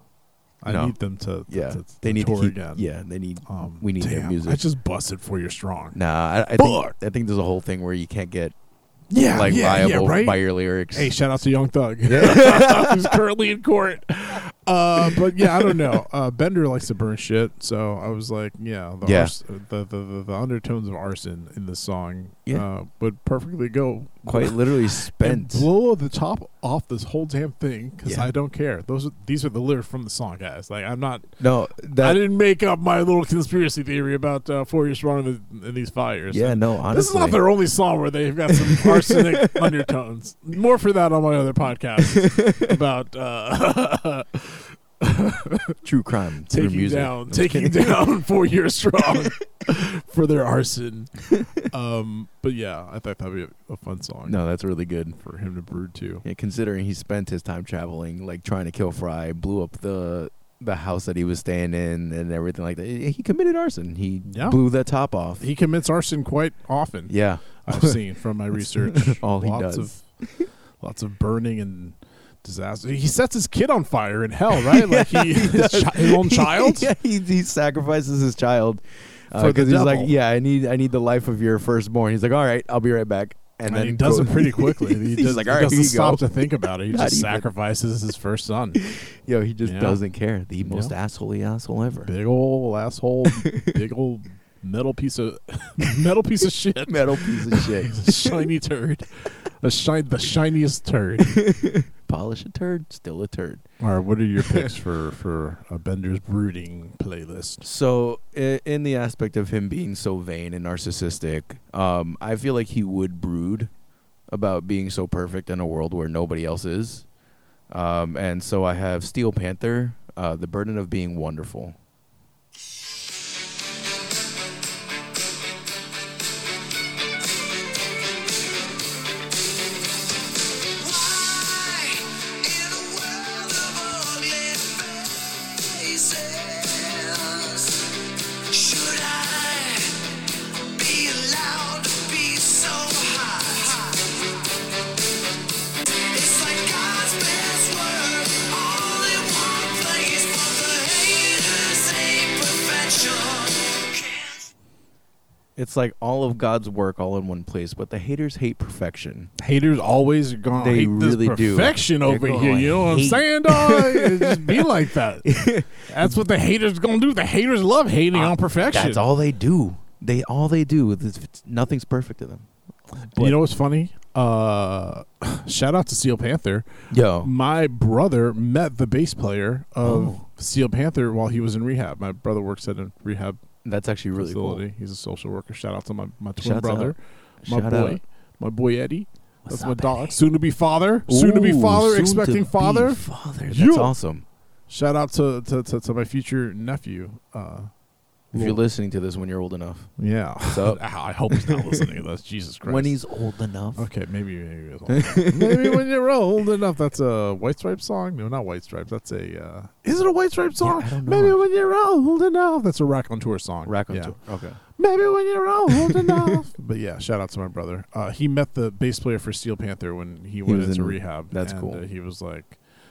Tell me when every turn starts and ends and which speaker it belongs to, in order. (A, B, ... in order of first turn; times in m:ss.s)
0:00.6-0:02.9 A
0:00.7-0:01.0 B
0:01.5-0:04.6 B
0:03.5-0:06.0 A
0:05.9-0:08.6 B
0:06.6-0:07.0 A
0:09.1-0:31.4 A
0:09.2-0:11.2 B
0:12.1-0:13.1 B
0:15.1-0:15.7 B
0:19.0-0:19.3 B
0:24.2-0:25.7 B
0:28.0-0:28.3 B
0:31.4-0:32.2 B
0:32.0-0:45.8 A
0:36.3-0:37.4 B
0:38.6-0:39.8 B
0:42.4-0:42.6 B
0:45.8-0:48.0 B
0:46.5-0:54.4 A
0:54.3-0:55.2 B
0:55.2-0:56.2 A
0:56.2-1:05.5 B
1:04.2-1:04.6 A
1:05.4-1:10.1 A
1:07.1-1:08.0 B
1:08.6-1:10.5 B
1:10.8-1:16.9 A
1:14.6-1:27.5 B
1:19.3-1:20.1 A
1:23.7-1:28.8 A
1:28.8-1:32.1 B
1:29.6-1:30.0 A
1:30.6-1:30.9 A
1:32.0-1:41.4 A
1:33.3-1:33.7 B
1:36.9-1:38.3 B
1:41.2-1:43.6 B
1:43.8-1:47.6 A
1:44.4-1:44.7 B
1:47.6-1:53.7 B
1:54.3-1:57.1 B
1:57.7-2:01.8 B
2:10.8-2:17.7 C
2:18.5-2:19.9 C
2:20.8-2:24.0 C
2:26.1-2:34.4 C
2:35.6-2:39.3 B
2:39.4-2:49.0 A
2:40.5-2:44.7 B
2:45.2-2:46.1 B
2:48.1-2:53.4 B
2:53.2-2:56.7 A
2:56.9-2:57.3 B
2:57.2-3:03.4 A
2:59.8-3:00.2 B
3:03.6-3:04.6 B
3:04.2-3:14.0 A
3:06.4-3:08.0 B
3:09.5-3:10.2 B
3:11.1-3:14.2 B
3:14.7-3:17.7 A
3:18.3-3:18.6 A
3:18.3-3:19.9 B
3:20.0-3:23.0 A
3:20.4-3:21.8 B
3:22.7-3:23.9 B
3:23.8-3:34.2 A
3:24.9-3:25.8 B
3:30.6-3:31.4 B
3:33.7-3:34.6 B
3:34.8-3:42.6 A
3:35.7-3:36.4 B
3:40.4-3:41.8 B